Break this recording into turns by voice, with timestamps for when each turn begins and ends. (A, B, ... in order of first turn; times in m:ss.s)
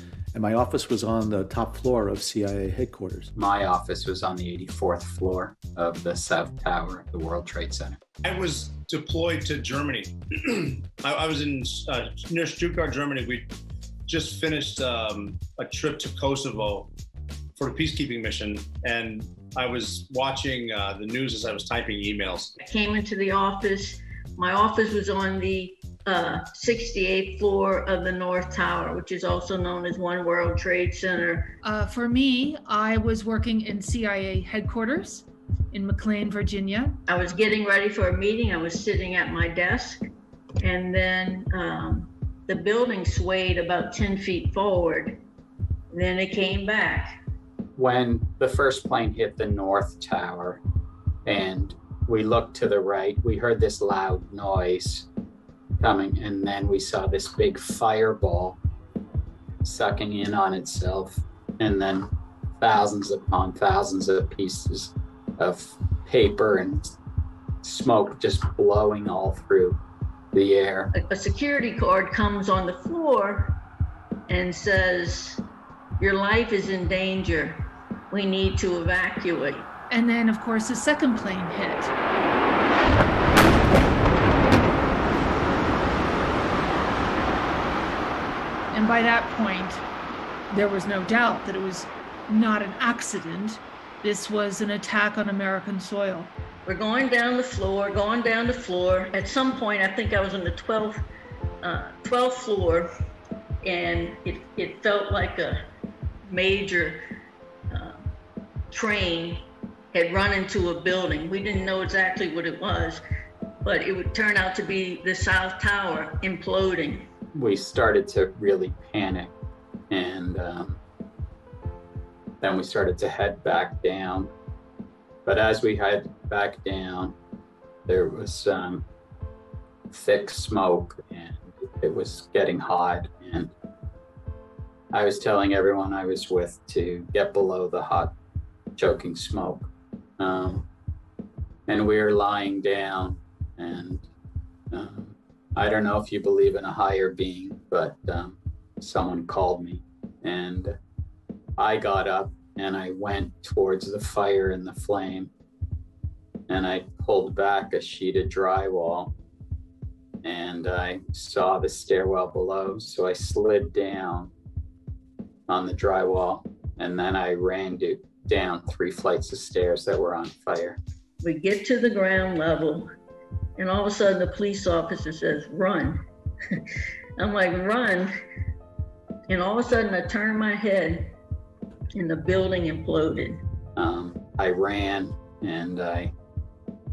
0:00.3-0:03.3 A
0:03.4-0:08.0 B
0:08.2-0:13.4 C
0:14.1-0:16.9 C
0:17.6-0:22.5 C
0:22.6-0:31.5 D
0:31.6-0:37.0 E
0:37.0-0:40.1 D
0:40.6-0:45.2 D
0:45.9-0:47.1 D
0:47.7-0:50.6 B
0:51.2-0:55.1 B
0:55.8-0:58.6 B
0:59.6-1:06.9 B
1:07.6-1:09.8 B
1:10.3-1:10.9 B
1:10.9-1:13.6 D
1:14.3-1:15.4 D
1:16.0-1:19.7 D
1:19.9-1:21.9 E
1:28.7-1:29.8 E
1:30.5-1:36.3 E
1:36.6-1:41.0 D
1:41.6-1:42.9 D
1:43.6-1:45.6 D
1:46.2-1:47.0 D
1:47.7-1:48.1 D
1:48.7-1:53.0 D
1:53.6-1:57.1 D
1:57.3-1:59.3 B
1:59.9-2:00.8 B
2:02.4-2:04.3 B
2:05.2-2:07.2 B
2:07.9-2:08.8 B
2:09.9-2:13.5 B
2:14.9-2:18.1 B
2:18.8-2:20.6 B
2:21.7-2:24.1 B
2:24.7-2:30.8 B
2:31.6-2:35.3 B
2:36.5-2:39.1 B
2:40.2-2:44.3 B
2:45.5-2:50.8 B
2:51.2-2:52.8 D
2:53.6-2:56.0 D
2:57.2-2:58.1 D
2:59.3-3:01.1 D
3:01.9-3:03.4 D
3:03.8-3:06.1 B